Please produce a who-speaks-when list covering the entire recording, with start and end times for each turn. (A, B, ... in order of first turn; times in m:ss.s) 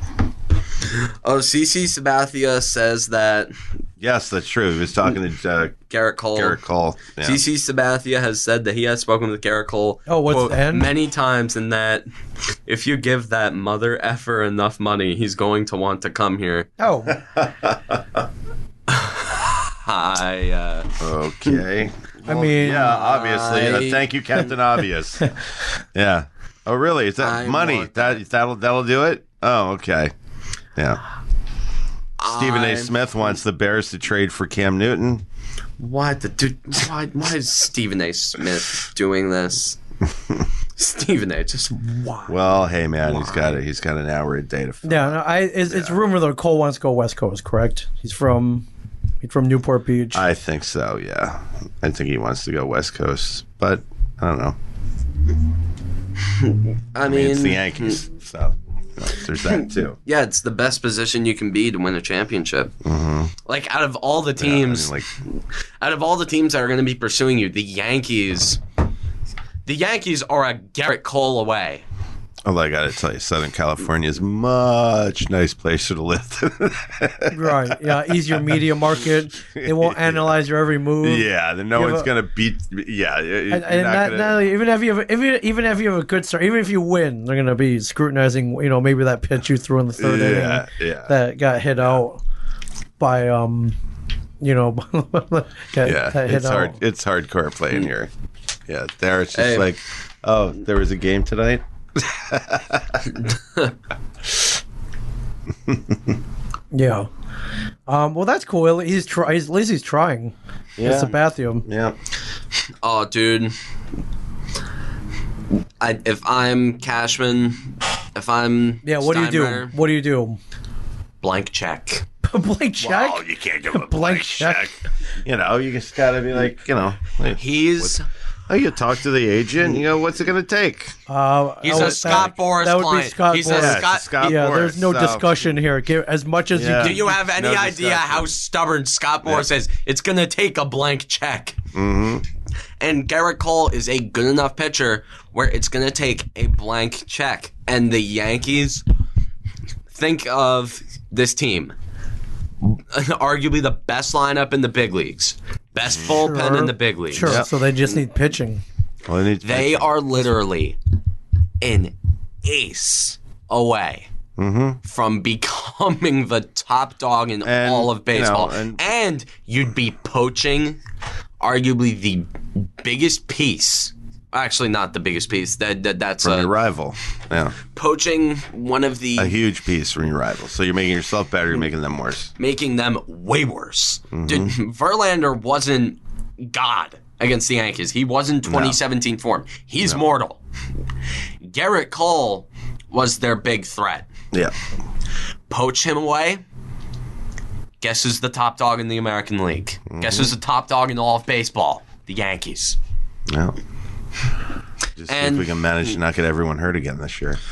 0:00.8-0:03.5 A
0:04.0-0:05.8 B
0:05.9-0:06.6 A
0:06.4-0:07.4 B
0:07.2-0:12.0 A
0:10.1-0:10.9 C
0:12.7-0:16.7 A
0:16.8-0:17.2 C
0:17.1-0:18.0 B
0:18.9-0:21.0 A
0:21.0-0:25.4 B
0:22.3-0:22.9 C
0:22.6-0:24.4 A
0:26.0-0:30.1 B
0:27.2-0:28.2 A
0:30.8-0:31.0 B
0:32.2-0:33.0 A
0:32.3-0:35.2 B
0:35.8-0:39.8 A
0:40.8-0:43.5 A
0:42.3-0:46.0 B
0:44.8-0:48.6 C
0:49.2-0:50.2 C
0:50.1-0:54.6 B
0:56.3-0:58.0 A
0:57.0-1:00.0 B
0:59.4-1:02.8 A
1:02.8-1:03.3 B
1:03.4-1:05.1 A
1:04.4-1:05.1 B
1:05.8-1:08.6 A
1:09.7-1:11.8 A
1:12.4-1:20.4 B
1:17.3-1:22.1 C
1:21.0-1:24.4 B
1:23.5-1:32.2 C
1:30.0-1:31.2 B
1:33.0-1:33.8 C
1:34.4-1:36.8 C
1:35.8-1:38.1 B
1:38.7-1:43.1 B
1:39.4-1:39.7 A
1:43.2-1:43.7 A
1:45.7-1:46.1 B
1:46.7-1:47.1 C
1:47.9-1:51.6 C
1:50.8-1:52.0 B
1:52.8-1:53.5 A
1:55.8-1:59.7 A
1:58.8-2:00.4 C
2:01.2-2:02.1 A
2:02.2-2:04.8 C
2:02.8-2:08.0 B
2:07.4-2:08.1 A
2:08.5-2:11.0 B
2:11.1-2:17.1 C
2:11.6-2:14.4 A
2:11.7-2:12.4 B
2:13.5-2:15.4 B
2:16.5-2:18.3 B
2:16.8-2:21.6 A
2:21.7-2:22.2 B
2:22.8-2:28.8 A
2:29.9-2:31.7 A
2:32.6-2:37.5 A
2:35.8-2:36.2 B
2:36.2-2:38.6 C
2:37.2-2:37.5 B
2:39.1-2:39.9 B
2:39.4-2:40.8 A
2:41.6-2:44.1 A
2:44.4-2:44.8 B
2:44.8-2:50.8 A
2:47.4-2:48.8 B
2:51.4-2:56.5 A
2:56.2-2:57.6 B
2:57.7-2:59.3 A
2:59.2-3:02.3 B
3:02.4-3:10.4 A
3:04.1-3:04.6 B
3:08.5-3:08.8 B
3:11.4-3:14.1 A
3:15.5-3:16.4 A
3:17.8-3:22.8 A
3:19.9-3:20.3 B
3:23.3-3:23.6 B
3:25.0-3:27.4 B
3:25.1-3:25.9 A